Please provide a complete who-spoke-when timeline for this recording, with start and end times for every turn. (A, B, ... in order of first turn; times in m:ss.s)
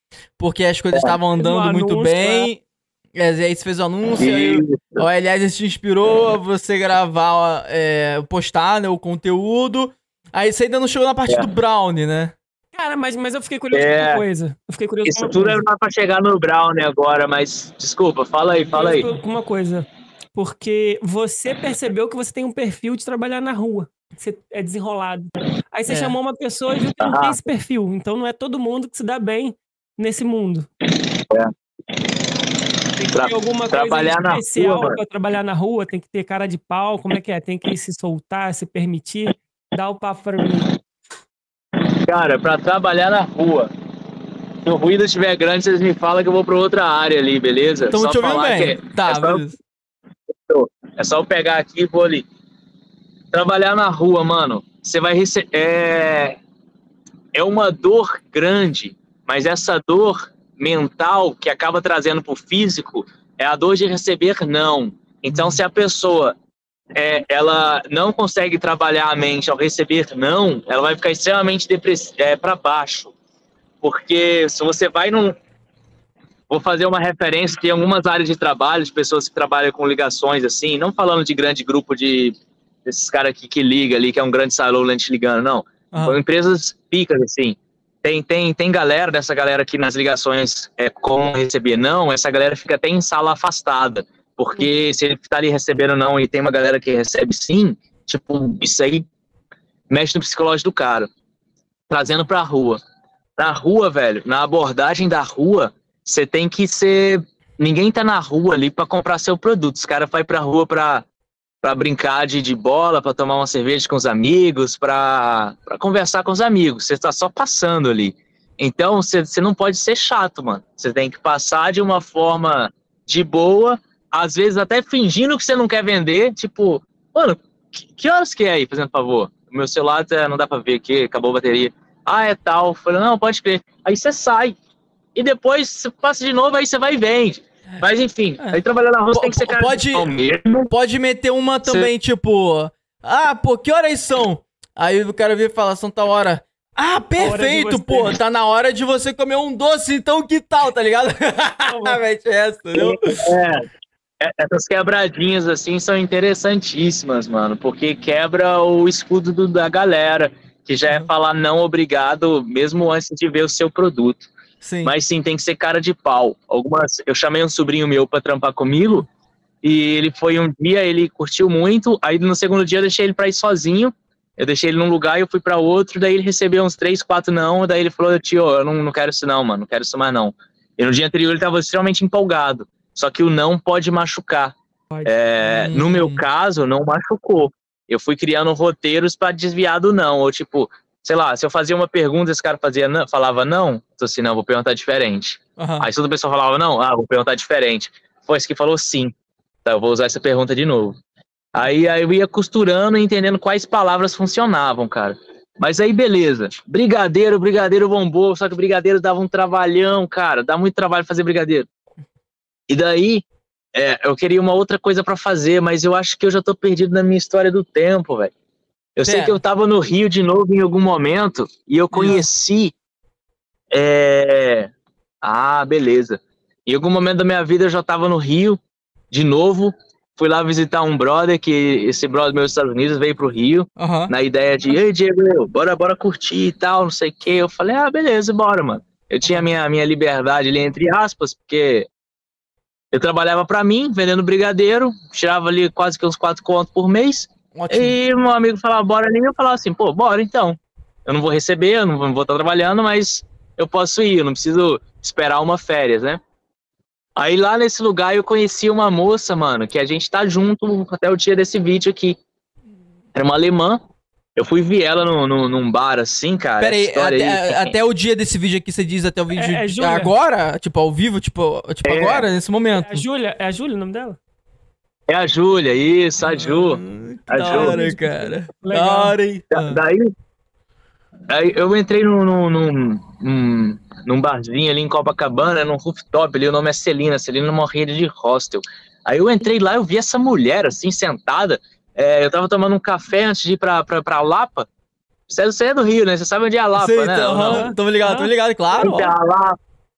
0:00.4-0:02.6 A
0:01.4-0:02.5 B
0:03.2-0:12.3 A
0:04.2-0:05.0 C
0:12.7-0:15.6 B
0:13.7-0:14.2 C
0:15.0-0:19.1 C
0:18.7-0:30.7 B
0:25.9-0:26.2 A
0:27.0-0:27.4 C
0:33.0-0:40.8 B
0:33.1-0:35.0 C
0:41.9-0:43.7 C
0:44.6-0:49.4 C
0:47.9-0:49.6 A
0:50.5-0:52.3 C
0:53.3-0:56.4 C
0:57.4-1:06.4 C
1:05.3-1:05.6 A
1:07.0-1:13.1 C
1:13.8-1:15.4 C
1:16.5-1:39.1 C
1:25.9-1:26.2 A
1:39.9-1:41.1 C
1:41.9-1:42.8 C
1:43.4-1:51.0 C
1:51.6-2:14.6 C
2:15.2-2:20.7 C
2:18.4-2:20.1 A
2:20.7-2:33.3 A
2:21.6-2:21.9 C
2:27.2-2:28.2 B
2:31.7-2:32.0 B
2:32.7-2:33.7 C
2:34.2-2:44.3 C
2:44.6-2:44.9 A
2:44.8-2:49.1 C
2:49.6-3:19.1 C
3:05.4-3:06.2 A
3:15.6-3:15.9 A
3:19.6-3:21.0 C
3:21.6-3:31.7 C
3:32.7-3:38.3 C
3:39.0-3:42.7 C
3:39.0-3:39.4 A
3:41.9-3:42.2 A
3:43.7-3:44.7 C
3:45.2-3:48.6 C
3:49.1-4:01.9 C
3:53.8-3:54.1 A
4:02.9-4:16.2 C
4:07.6-4:08.0 A
4:17.2-4:22.2 C
4:23.2-4:23.8 C
4:24.4-4:27.7 C
4:26.6-4:33.0 A
4:29.4-4:30.1 B
4:31.8-4:32.3 C
4:32.8-4:34.2 B
4:35.1-4:37.8 C
4:36.2-4:39.8 A
4:37.5-4:39.2 B
4:39.5-4:40.1 C
4:41.3-4:54.7 C
4:55.3-4:57.7 C
4:56.8-4:59.1 A
4:57.5-4:58.9 B
4:58.8-4:59.6 C